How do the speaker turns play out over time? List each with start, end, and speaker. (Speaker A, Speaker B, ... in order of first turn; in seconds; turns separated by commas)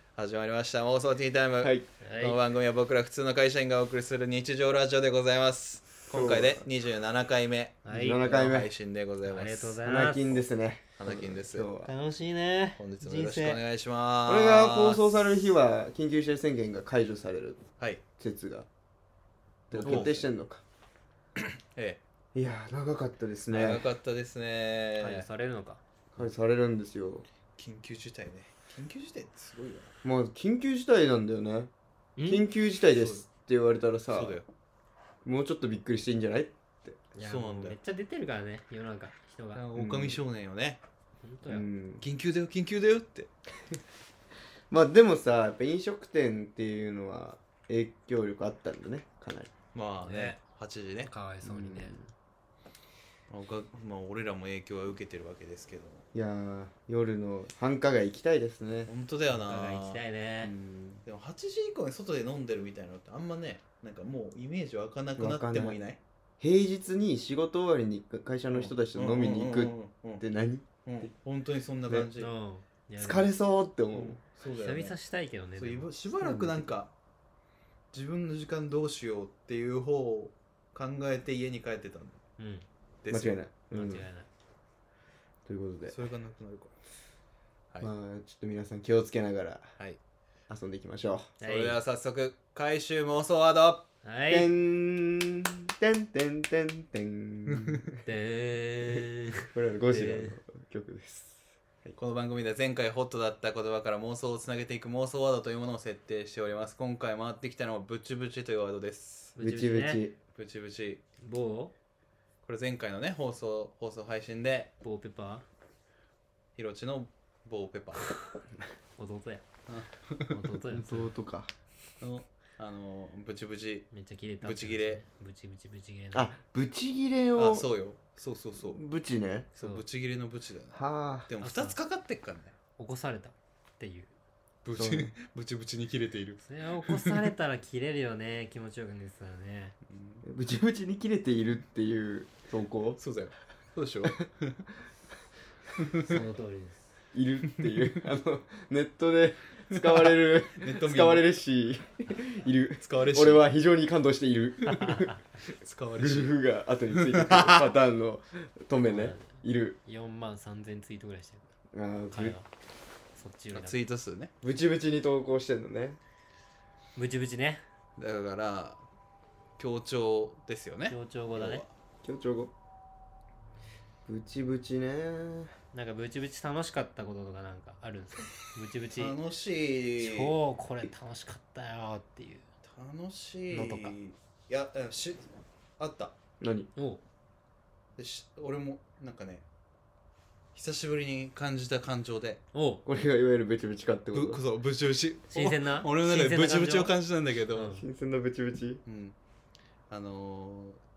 Speaker A: 0.2-9.8, Speaker B: 1.6-1.9, Speaker C: 2.0-2.4, Speaker B: 6.1-6.6, Speaker C: 6.1-6.5, Speaker C: 7.8-8.4, Speaker B: 7.9-8.7, Speaker C: 9.3-10.4, Speaker B: 9.8-11.9, Speaker A: 11.0-11.7, Speaker C: 11.8-13.6, Speaker A: 12.8-15.5, Speaker B: 14.3-17.6, Speaker B: 18.2-18.7, Speaker B: 19.7-20.6, Speaker A: 19.7-20.3, Speaker C: 19.8-20.1, Speaker A: 21.4-22.0, Speaker B: 22.3-23.9, Speaker A: 23.5-25.3, Speaker C: 25.0-25.8, Speaker B: 26.1-27.3, Speaker A: 27.6-29.9, Speaker B: 30.0-31.7, Speaker C: 32.2-33.2, Speaker B: 32.2-34.4, Speaker A: 34.1-34.5, Speaker B: 35.2-37.0, Speaker C: 37.1-39.6, Speaker A: 37.2-37.8, Speaker A: 39.5-40.8, Speaker B: 39.8-40.2, Speaker C: 41.2-41.7, Speaker B: 41.5-42.0, Speaker A: 42.0-43.3, Speaker B: 44.7-49.5, Speaker A: 49.7-51.1, Speaker C: 50.0-50.4, Speaker C: 51.1-52.0, Speaker B: 51.4-52.1, Speaker A: 53.3-56.0, Speaker B: 56.1-58.9, Speaker A: 58.9-60.0, Speaker C: 59.4-60.5, Speaker B: 60.4-61.0, Speaker A: 61.0-66.0, Speaker B: 65.2-65.8, Speaker B: 66.4-71.1, Speaker A: 68.5-70.2, Speaker A: 70.8-72.3, Speaker C: 72.2-73.3, Speaker B: 73.0-74.2, Speaker A: 73.9-75.0, Speaker C: 74.5-76.0, Speaker A: 75.6-76.9, Speaker B: 76.2-76.7, Speaker A: 77.9-82.2, Speaker C: 82.4-82.7, Speaker A: 83.0-83.4, Speaker B: 83.1-84.1, Speaker C: 83.7-84.3, Speaker B: 85.5-86.0, Speaker A: 85.9-86.7, Speaker B: 87.8-89.7, Speaker B: 90.5-91.3, Speaker C: 91.4-91.8, Speaker A: 91.4-93.9, Speaker C: 94.0-94.5, Speaker B: 94.3-98.0, Speaker A: 97.5-97.8, Speaker C: 98.0-100.3, Speaker B: 99.5-102.0, Speaker A: 102.0-109.4, Speaker C: 109.4-110.0, Speaker B: 109.4-110.2, Speaker A: 110.3-111.0, Speaker C: 111.2-111.7, Speaker A: 112.4-114.7, Speaker C: 114.8-115.5, Speaker A: 116.6-118.1, Speaker C: 119.0-119.5, Speaker A: 119.7-120.4, Speaker C: 120.3-121.1, Speaker B: 120.7-121.5, Speaker A: 122.0-123.9, Speaker C: 123.9-126.3, Speaker A: 124.4-125.0, Speaker B: 126.1-127.7, Speaker A: 127.4-128.8, Speaker B: 128.6-129.5, Speaker C: 129.6-129.8, Speaker A: 129.6-132.6, Speaker B: 130.7-131.3, Speaker C: 131.4-131.8, Speaker C: 132.8-134.1, Speaker A: 134.6-137.3, Speaker B: 134.7-135.1, Speaker C: 136.4-139.8, Speaker A: 139.9-140.2, Speaker B: 140.2-143.0, Speaker A: 143.0-144.6, Speaker A: 145.8-146.2, Speaker C: 146.0-146.9, Speaker B: 147.1-155.2, Speaker A: 147.5-148.1, Speaker A: 149.7-151.3, Speaker A: 152.8-153.5, Speaker A: 155.6-156.4, Speaker B: 156.0-159.8, Speaker A: 156.9-157.7, Speaker C: 158.8-161.5, Speaker B: 161.7-162.4, Speaker C: 162.1-162.5, Speaker C: 163.2-163.8, Speaker A: 163.5-164.3, Speaker B: 164.4-166.0, Speaker C: 167.0-167.6, Speaker A: 168.0-168.8, Speaker A: 169.6-171.7, Speaker C: 170.9-171.7, Speaker B: 172.0-172.5, Speaker B: 174.1-175.5, Speaker C: 175.7-179.2, Speaker A: 178.9-180.3, Speaker C: 180.0-182.4, Speaker A: 182.6-186.2, Speaker C: 183.5-183.9, Speaker B: 186.4-186.7, Speaker C: 186.8-187.0, Speaker A: 188.0-189.4, Speaker A: 190.6-192.4, Speaker C: 192.5-192.8, Speaker B: 192.8-194.4, Speaker A: 194.1-197.7, Speaker C: 195.3-196.9, Speaker C: 197.5-197.9, Speaker B: 197.8-198.8, Speaker A: 198.9-199.2, Speaker A: 199.9-200.8